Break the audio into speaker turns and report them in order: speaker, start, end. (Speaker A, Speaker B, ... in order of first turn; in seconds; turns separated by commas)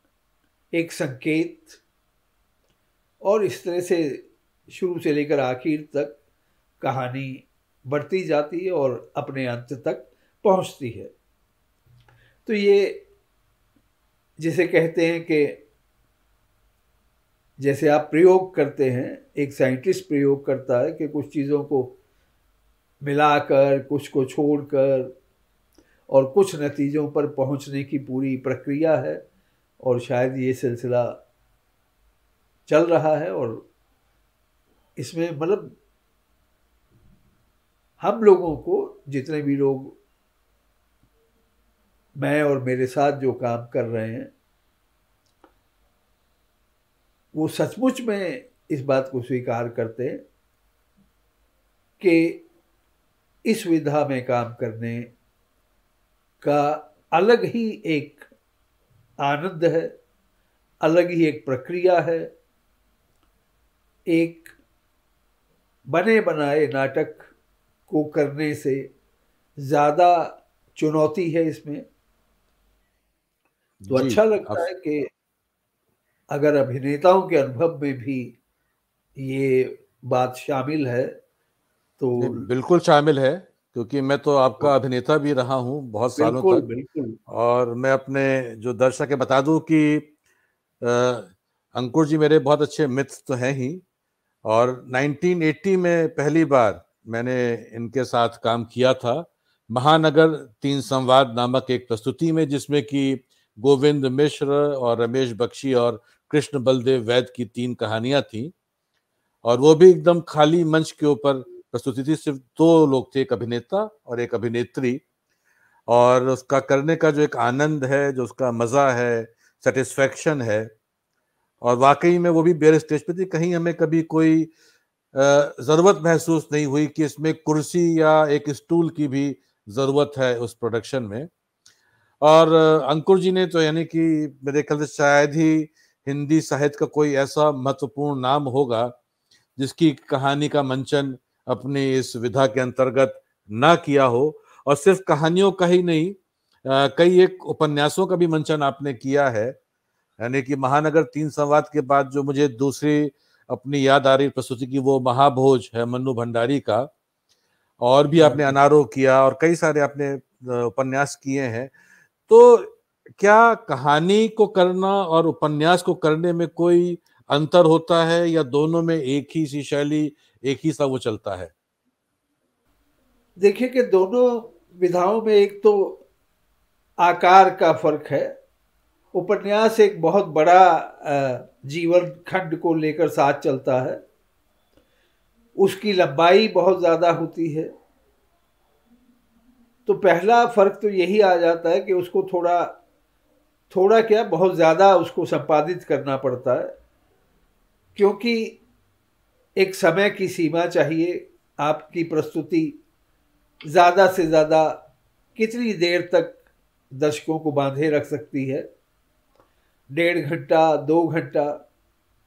Speaker A: 0.7-1.8, Speaker A: 3.2-6.1, Speaker A: 6.8-11.1, Speaker A: 12.4-13.0, Speaker A: 14.4-15.6, Speaker A: 17.6-21.9, Speaker A: 23.0-25.1, Speaker A: 26.1-29.2, Speaker A: 29.8-31.2, Speaker A: 32.7-33.6, Speaker A: 35.0-35.7, Speaker A: 38.0-40.0, Speaker A: 42.2-44.3, Speaker A: 47.3-50.2, Speaker A: 52.0-52.4, Speaker A: 53.4-55.1, Speaker A: 56.4-58.3, Speaker A: 59.2-59.9, Speaker A: 60.8-62.3, Speaker A: 64.1-64.5, Speaker A: 65.9-67.3, Speaker A: 67.9-68.9, Speaker A: 69.6-71.8, Speaker B: 73.8-74.6, Speaker A: 73.9-75.1, Speaker A: 76.3-78.3, Speaker A: 79.2-81.2, Speaker A: 82.0-82.4, Speaker B: 82.2-86.6, Speaker A: 86.2-87.2, Speaker B: 87.3-90.1, Speaker B: 90.8-93.8, Speaker B: 94.5-108.5, Speaker B: 109.4-115.0, Speaker B: 115.9-120.7, Speaker B: 121.6-124.5, Speaker B: 125.1-131.3, Speaker B: 132.2-138.9, Speaker B: 139.6-149.6, Speaker B: 150.2-156.9, Speaker B: 157.8-161.7, Speaker A: 158.2-158.5, Speaker B: 162.3-171.5, Speaker A: 173.4-176.0, Speaker A: 177.0-178.3, Speaker A: 179.1-184.0, Speaker A: 185.6-187.7, Speaker A: 189.8-192.8, Speaker A: 193.7-196.7, Speaker A: 197.9-198.6, Speaker A: 199.6-202.8, Speaker A: 203.7-204.8, Speaker A: 205.3-206.3, Speaker A: 206.9-208.7, Speaker A: 209.9-211.6